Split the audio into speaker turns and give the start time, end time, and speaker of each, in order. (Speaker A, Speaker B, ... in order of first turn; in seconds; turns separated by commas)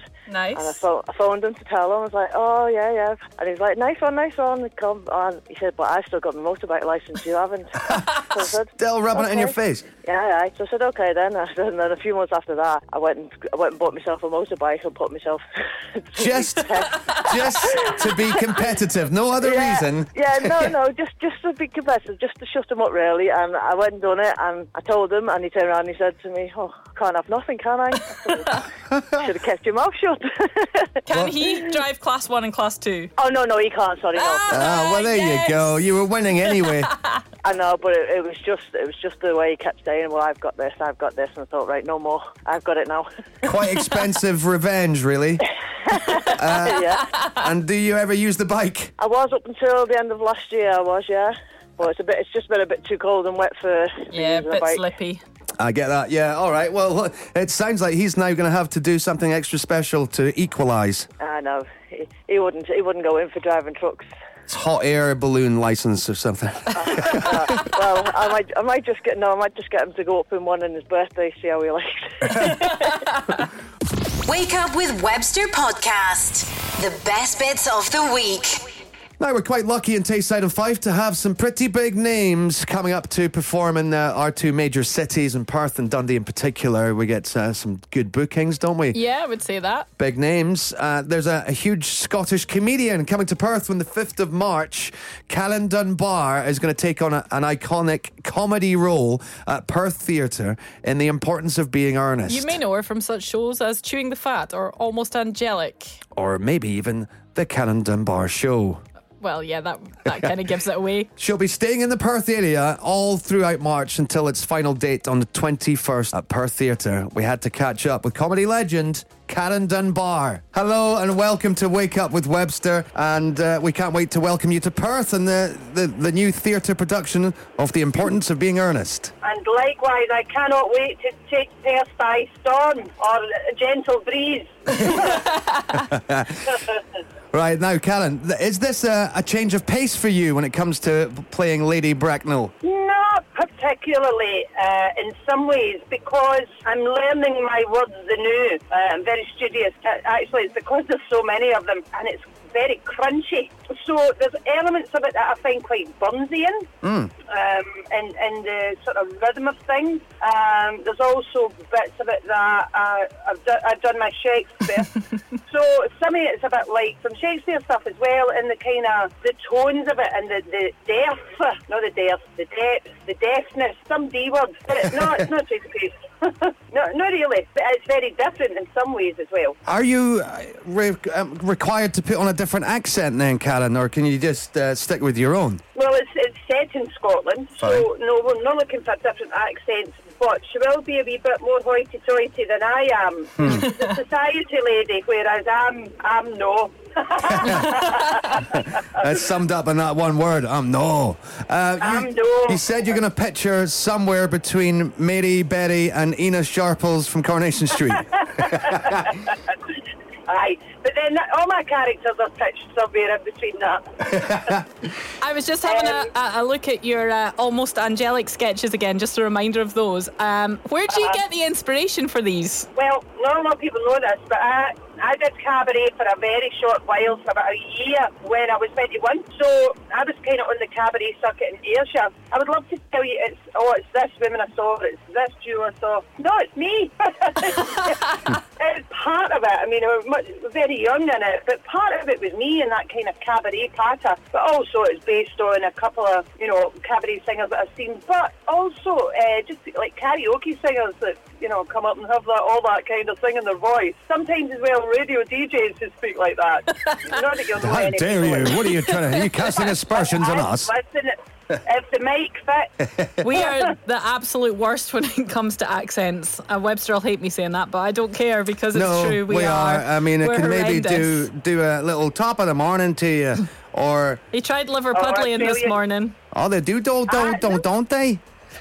Speaker A: 0.3-0.8, Speaker B: 0.5-18.3, Speaker C: 7.9-9.8, Speaker C: 16.2-20.7, Speaker B: 19.4-30.9, Speaker C: 28.9-29.2, Speaker A: 31.1-33.1, Speaker B: 33.2-34.6, Speaker A: 34.2-35.8, Speaker C: 34.5-36.9, Speaker B: 37.4-43.1, Speaker C: 43.4-45.5, Speaker B: 45.9-47.1, Speaker C: 46.2-48.9, Speaker B: 49.0-54.8, Speaker A: 54.1-55.2, Speaker C: 55.6-61.1, Speaker B: 61.2-64.1, Speaker C: 64.5-67.7, Speaker B: 66.7-73.0, Speaker D: 74.2-78.7, Speaker C: 79.2-89.0, Speaker A: 88.9-89.9, Speaker C: 90.0-102.6, Speaker A: 102.3-106.0, Speaker C: 106.1-108.8, Speaker A: 109.2-111.1, Speaker C: 111.2-129.1, Speaker E: 129.2-135.3, Speaker C: 135.7-136.6, Speaker C: 137.3-142.5, Speaker E: 142.6-156.7, Speaker C: 156.8-157.1, Speaker E: 157.3-179.6, Speaker C: 179.6-185.6, Speaker E: 185.7-199.1, Speaker C: 193.4-193.7, Speaker C: 197.3-209.0, Speaker E: 201.8-202.8, Speaker E: 208.2-209.5, Speaker E: 210.3-214.6, Speaker C: 214.2-214.6, Speaker A: 215.2-222.7, Speaker E: 215.7-216.1, Speaker E: 220.9-221.2, Speaker E: 222.8-258.9, Speaker C: 257.6-260.7, Speaker E: 259.6-263.7, Speaker A: 263.2-271.3, Speaker C: 268.7-274.2, Speaker A: 274.3-276.1, Speaker E: 274.9-275.8, Speaker C: 276.3-278.2, Speaker E: 277.1-277.6